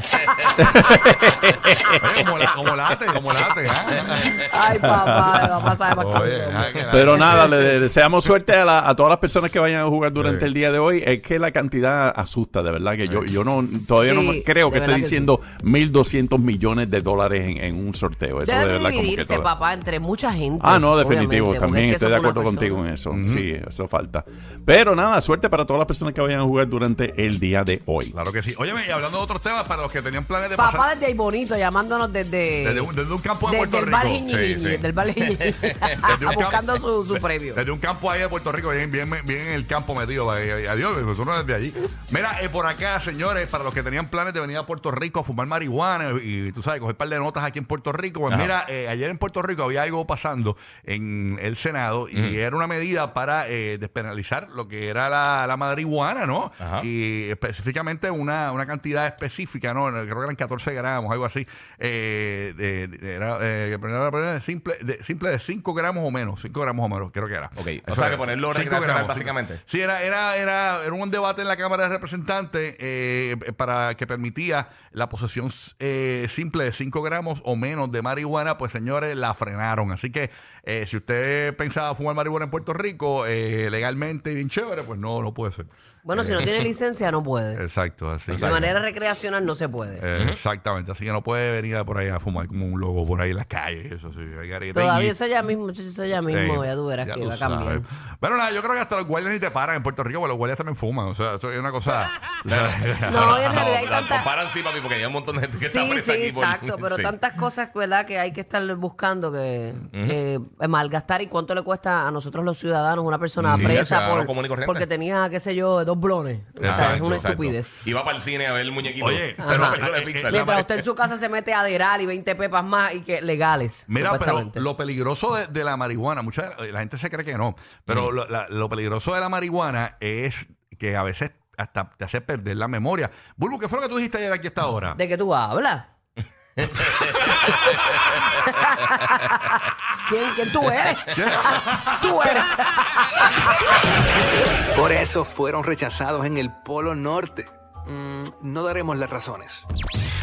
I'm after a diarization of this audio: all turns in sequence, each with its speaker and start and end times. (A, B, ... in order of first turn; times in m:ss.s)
0:00.6-0:02.5 A
0:02.0-0:04.5 B
0:04.2-0:05.8 A
0:04.5-0:07.6 C
0:06.0-0:07.7 B
0:06.9-0:19.5 A
0:10.2-0:10.5 B
0:14.0-0:15.3 C
0:18.4-0:22.8 C
0:20.6-0:28.1 A
0:23.1-0:23.4 B
0:28.1-0:30.9 B
0:30.6-0:32.9 C
0:32.6-0:34.2 B
0:33.4-0:37.6 C
0:34.3-0:35.6 D
0:36.0-1:26.5 B
0:56.6-0:56.9 D
1:07.6-1:09.6 D
1:26.0-1:27.6 C
1:27.5-1:28.8 B
1:28.3-1:28.7 D
1:28.4-1:30.0 C
1:30.0-1:35.2 B
1:34.7-1:37.8 C
1:36.3-1:43.6 B
1:42.5-1:47.2 D
1:43.1-1:44.3 C
1:45.6-1:57.8 C
1:49.9-1:50.2 D
1:53.4-1:53.8 B
1:53.5-1:54.9 D
1:56.6-1:57.4 B
1:56.6-2:00.6 D
1:59.0-2:00.9 B
1:59.4-2:04.6 C
2:03.9-2:15.0 B
2:15.0-2:15.9 C
2:16.6-2:17.1 D
2:17.4-2:23.5 C
2:17.7-2:18.0 D
2:21.1-2:22.5 B
2:24.8-2:29.6 E